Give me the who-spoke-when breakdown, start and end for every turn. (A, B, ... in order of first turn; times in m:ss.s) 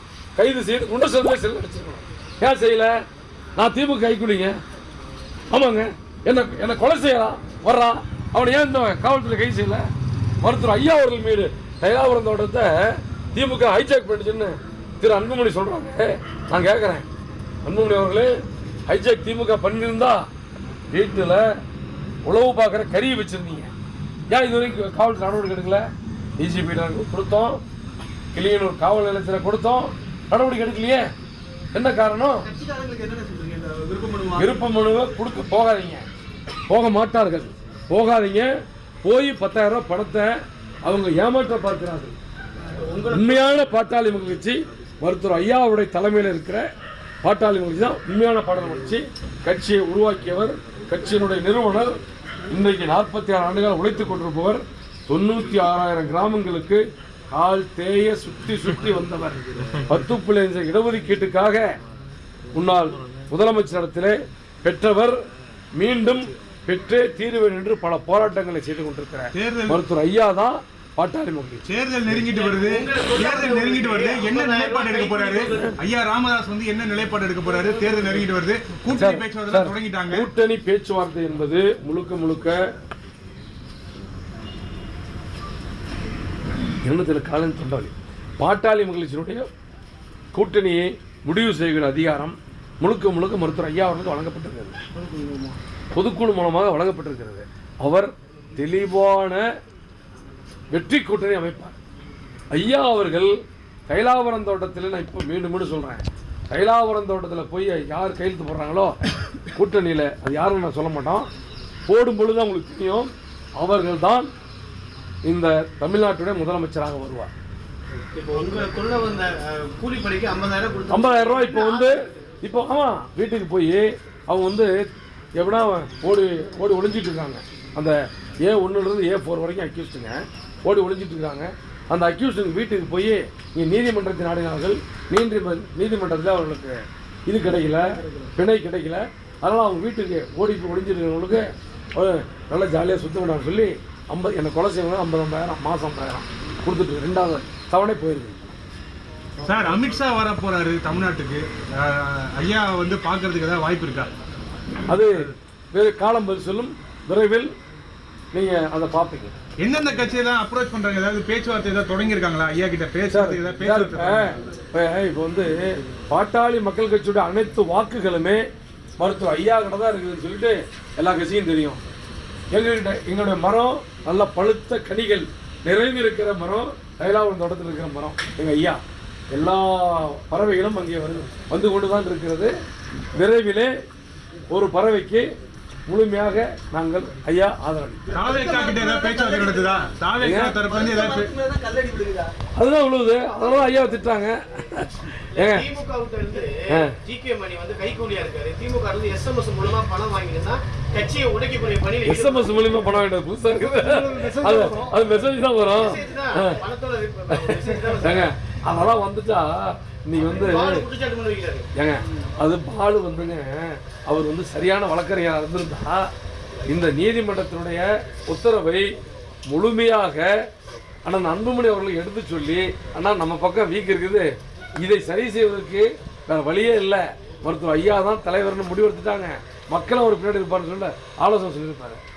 0:00.4-0:03.0 A
0:03.6-0:04.6 A
0:05.5-0:09.9 A
0:10.4-0:17.0 A
0:17.6-0:18.3 A
0:18.9-0:20.3 A
0:20.9-0:21.5 A
0:22.3-0:23.7 A
0:24.3-0:25.8 A
0:26.4-0:27.6 A
0:28.3-0:31.1 A
0:31.7-0:32.5 A
0:32.5-0:34.5 B
0:34.4-0:36.0 A
0:36.7-0:38.5 A
0:39.0-0:40.3 A
0:40.8-0:42.1 A
0:42.8-0:43.5 B
0:43.1-0:46.6 A
0:47.2-0:52.0 A
0:52.5-0:56.8 A
0:57.3-1:01.7 A
1:02.5-1:05.2 A
1:05.8-1:11.6 A
1:09.4-1:09.8 C
1:11.6-1:20.3 C
1:12.3-1:15.8 B
1:18.9-1:22.6 A
1:26.8-1:29.5 A
1:30.3-1:34.8 A
1:35.0-1:35.6 B
1:35.9-1:39.5 A
1:40.7-1:41.8 A
1:42.5-1:43.4 A
1:43.9-1:48.9 A
1:49.6-1:51.3 A
1:51.9-1:54.3 A
1:55.2-1:57.3 A
1:58.2-2:02.0 B
2:00.9-2:04.9 A
2:05.4-2:28.5 A
2:29.4-2:34.1 C
2:34.9-2:37.5 A
2:38.3-2:39.3 A
2:39.6-2:44.3 C
2:43.1-2:48.4 A
2:49.0-2:51.8 A
2:52.5-2:58.8 A
2:59.3-3:02.5 A
3:03.2-3:03.7 A
3:04.5-3:05.3 A
3:05.9-3:08.0 A
3:08.1-3:11.4 C
3:08.5-3:09.5 B
3:10.2-3:10.6 A
3:10.9-3:12.3 B
3:12.6-3:15.7 A
3:15.3-3:22.9 B
3:16.7-3:17.0 A
3:22.0-3:26.6 A
3:23.6-3:25.0 C
3:24.3-3:24.7 B
3:25.7-3:28.3 B
3:27.3-3:30.9 A
3:30.2-3:31.7 B
3:31.8-3:36.1 A
3:36.7-3:38.9 A
3:39.5-3:40.3 A
3:41.1-3:52.0 A